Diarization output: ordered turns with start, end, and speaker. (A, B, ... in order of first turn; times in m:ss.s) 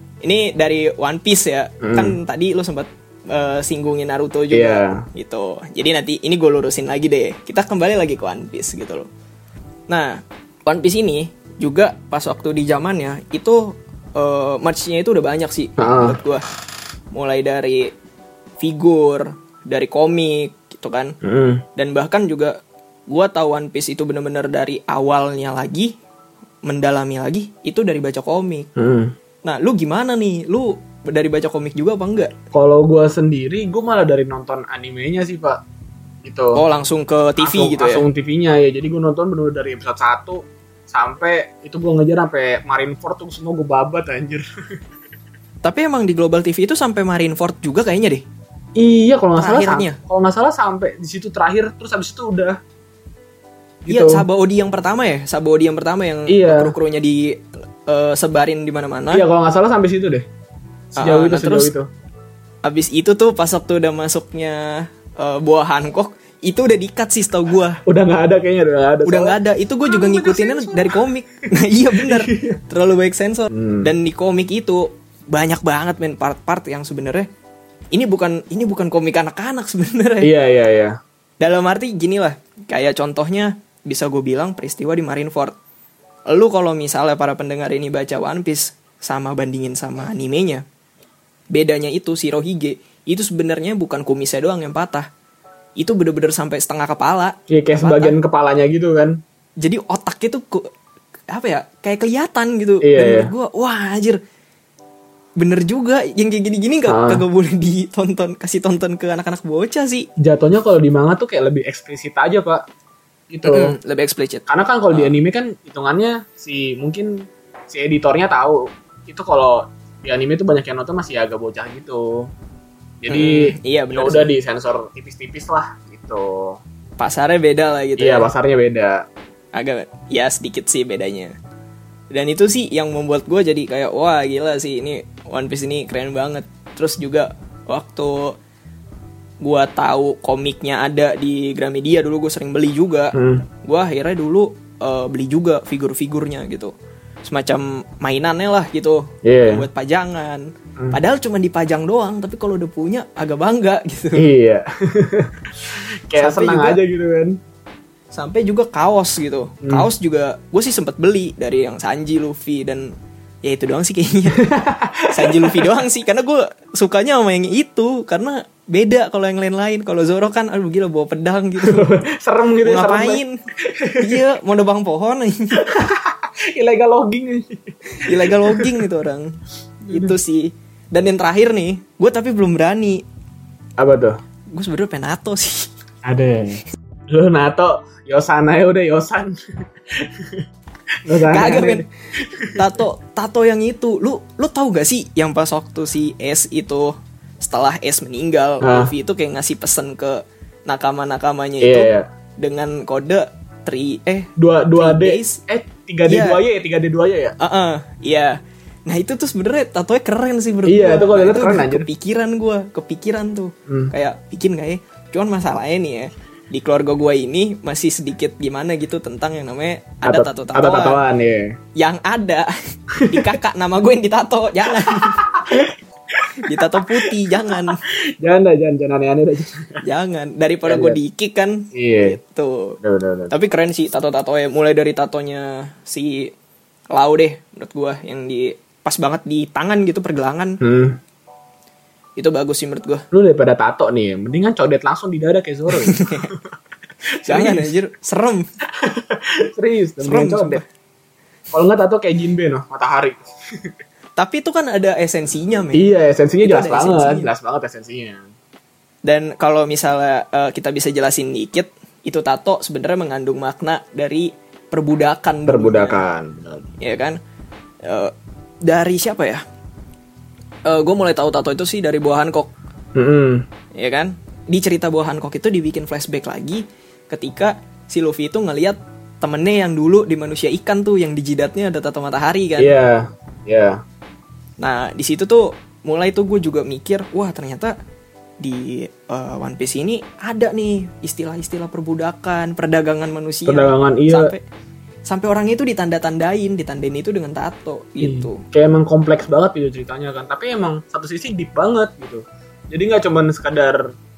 0:00.2-0:09.1 A
0:01.8-0:02.2 B
0:04.5-0:05.0 B
0:09.9-0:16.4 A
0:15.8-0:16.2 B
0:17.1-0:17.9 A
0:18.6-0:21.1 A
0:21.2-0:21.6 B
0:21.8-0:22.6 A
0:23.1-0:26.0 A
0:26.6-0:28.7 A
0:28.8-0:29.1 B
0:29.4-0:32.3 A
0:32.5-0:35.6 B
0:36.2-0:36.6 B
0:36.6-0:38.0 A
0:37.4-0:44.4 B
0:45.6-0:48.2 A
0:48.8-0:52.6 B
0:49.4-0:50.0 A
0:53.8-0:54.2 B
0:53.9-0:59.2 A
0:56.3-0:56.7 B
0:59.1-1:00.3 B
1:01.0-1:01.9 B
1:01.0-1:01.7 A
1:02.6-1:07.8 A
1:07.8-1:11.1 B
1:09.0-1:17.3 A
1:12.0-1:12.6 B
1:13.5-1:13.9 B
1:17.9-1:20.3 A
1:20.2-1:21.0 B
1:21.4-1:25.6 A
1:26.3-1:30.6 A
1:31.5-1:35.1 A
1:35.8-1:38.2 A
1:37.5-1:39.2 B
1:39.6-1:40.7 A
1:41.3-1:44.2 A
1:42.8-1:43.3 B
1:45.4-1:50.1 A
1:46.9-1:47.2 B
1:50.2-1:52.6 B
1:53.3-1:53.8 B
1:53.4-1:55.2 A
1:54.5-2:02.3 B
2:03.0-2:06.6 B
2:03.1-2:04.3 A
2:07.0-2:08.3 A
2:08.0-2:09.0 B
2:09.5-2:11.3 A
2:12.1-2:18.4 A
2:19.4-2:26.7 A
2:23.1-2:23.5 B
2:27.2-2:34.3 A
2:29.2-2:29.7 B
2:34.2-2:37.4 B
2:36.2-2:36.8 A
2:38.1-2:44.5 A
2:39.6-2:39.9 B
2:44.4-2:45.7 B
2:45.1-2:51.9 A
2:51.6-2:54.2 B
2:52.6-2:53.4 A
2:54.0-2:55.6 A
2:55.6-2:58.8 B
2:58.0-2:59.3 A
2:59.9-3:00.2 B
2:59.9-3:03.0 A
3:03.8-3:04.2 B
3:04.5-3:05.7 A
3:06.0-3:09.4 B
3:09.9-3:10.4 B
3:11.0-3:12.7 B
3:11.2-3:11.8 A
3:12.5-3:25.4 A
3:18.6-3:18.9 B
3:21.6-3:22.1 B
3:24.4-3:27.4 B
3:26.1-3:26.4 A
3:27.4-3:41.0 A
3:30.7-3:31.9 B
3:33.7-3:33.9 B
3:40.0-3:41.6 B
3:41.8-3:45.7 A
3:42.9-3:43.4 B
3:44.8-3:49.8 B
3:46.4-3:47.8 A
3:49.8-3:52.8 A
3:50.7-3:51.0 B
3:51.7-3:52.2 B
3:52.8-3:53.3 B
3:53.3-3:56.3 A
3:56.9-4:00.6 A
4:00.6-4:01.0 B
4:02.2-4:03.0 A
4:03.1-4:06.4 B
4:05.8-4:06.3 A
4:07.2-4:08.5 A
4:07.2-4:07.7 B
4:08.7-4:10.6 B
4:10.0-4:10.6 A
4:11.5-4:13.7 B
4:14.2-4:15.9 A
4:15.7-4:18.3 B
4:16.4-4:17.3 A
4:19.0-4:26.0 A
4:25.5-4:26.7 B
4:26.8-4:27.2 A
4:27.8-4:29.4 A
4:30.6-4:32.5 A
4:33.0-4:33.5 B
4:33.7-4:42.8 A
4:42.6-4:43.8 B
4:44.6-4:47.8 A
4:48.4-4:54.4 A
4:53.5-4:54.3 B
4:55.1-4:58.4 A
4:58.0-5:03.9 B